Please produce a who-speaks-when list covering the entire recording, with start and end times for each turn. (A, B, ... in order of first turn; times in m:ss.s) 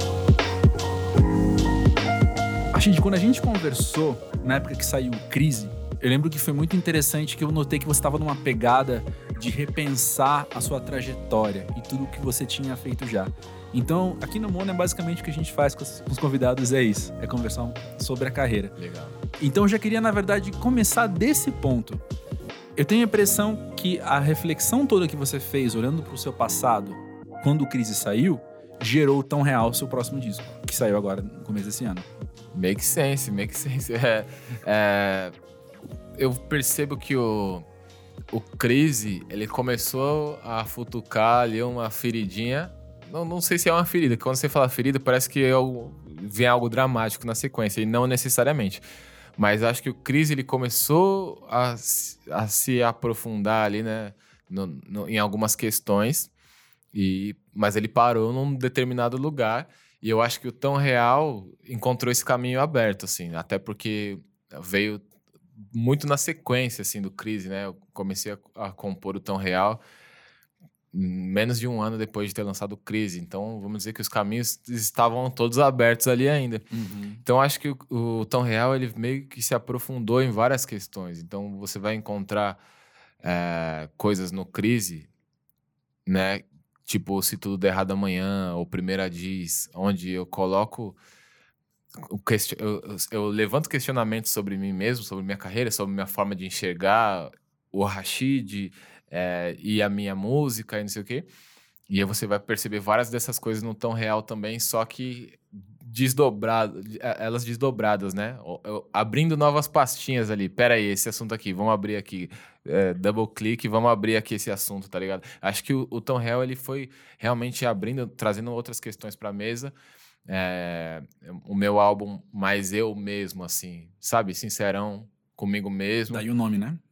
0:02.7-0:18.8 A
0:18.8-0:19.2 B
0:19.4-0:22.0 A
0:22.8-0:32.1 A
0:32.5-0:35.3 B
0:36.2-0:37.6 B
0:38.3-0:48.8 B
0:49.4-0:56.3 B
0:56.9-1:05.0 B
1:05.7-1:09.8 B
1:10.9-1:16.6 B
1:16.7-1:17.2 A
1:17.2-1:22.6 B
1:23.2-1:25.1 B
1:26.1-1:31.0 B
1:32.0-1:41.3 B
1:41.9-1:59.7 B
2:00.3-2:06.2 B
2:06.1-2:06.8 A